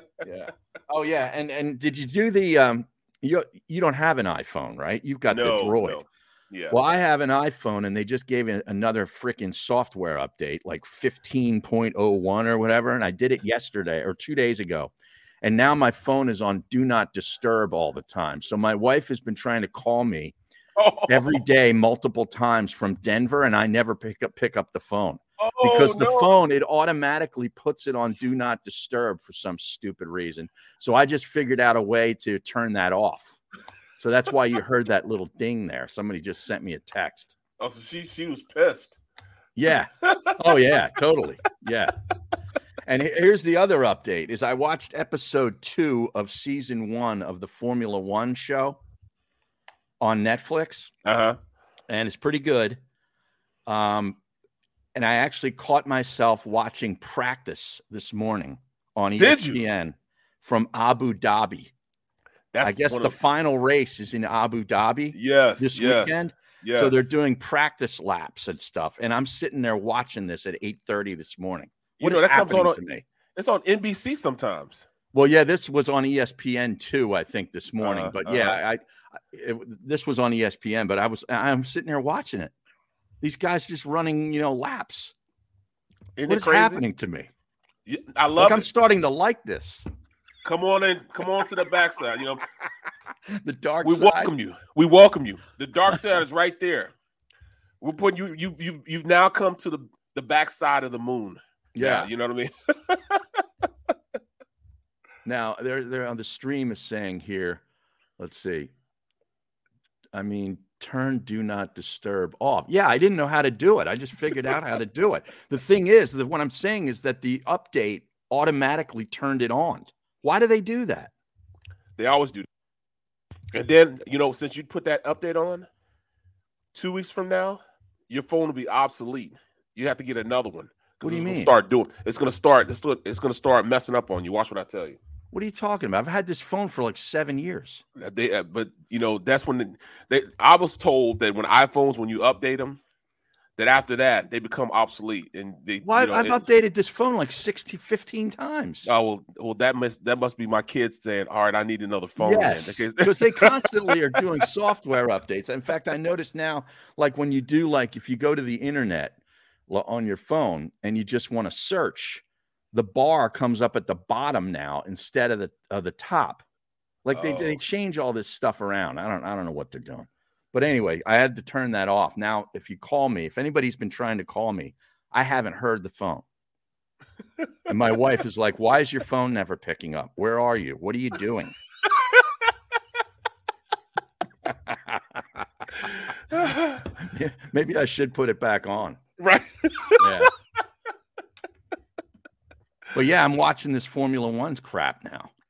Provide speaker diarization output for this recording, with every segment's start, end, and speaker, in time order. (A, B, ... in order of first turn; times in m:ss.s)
0:00.2-0:06.0 A
0:05.3-0:06.8 B
0:06.7-0:20.3 A
0:20.8-0:21.4 B
0:21.1-0:33.4 A
0:25.4-0:26.3 B
0:34.0-0:37.4 A
0:37.6-0:39.0 B
0:39.6-0:41.9 A
0:40.1-0:40.3 B
0:42.8-0:48.8 A
0:50.0-0:50.9 A
0:51.0-0:51.4 B
0:51.9-0:52.8 A
0:53.7-0:54.2 A
0:54.9-1:01.7 A
0:59.2-0:59.6 B
1:02.5-1:03.2 B
1:02.6-1:13.0 A
1:05.1-1:07.1 B
1:12.0-1:12.8 B
1:13.4-1:14.9 B
1:15.1-1:22.5 A
1:17.8-1:18.6 B
1:23.2-1:25.1 A
1:26.2-1:26.8 B
1:26.2-1:27.3 A
1:27.9-1:28.6 B
1:28.4-1:29.9 A
1:30.4-1:32.4 B
1:33.3-1:34.3 A
1:33.8-1:36.9 B
1:37.8-1:43.2 B
1:41.8-1:42.1 A
1:45.2-1:47.6 A
1:48.2-1:48.7 A
1:50.1-2:01.1 A
2:02.0-2:02.5 B
2:03.5-2:05.7 B
2:06.7-2:15.0 B
2:11.0-2:11.5 A
2:15.3-2:17.8 A
2:18.0-2:22.8 B
2:23.6-2:26.4 B
2:25.8-2:28.9 A
2:28.9-2:34.2 B
2:32.2-2:46.4 A
2:47.0-2:56.2 A
2:47.1-2:47.6 B
2:57.7-3:01.6 A
3:04.5-3:05.4 A
3:06.4-3:06.8 B
3:07.0-3:09.0 A
3:09.2-3:10.1 B
3:10.0-3:10.3 A
3:12.9-3:15.3 A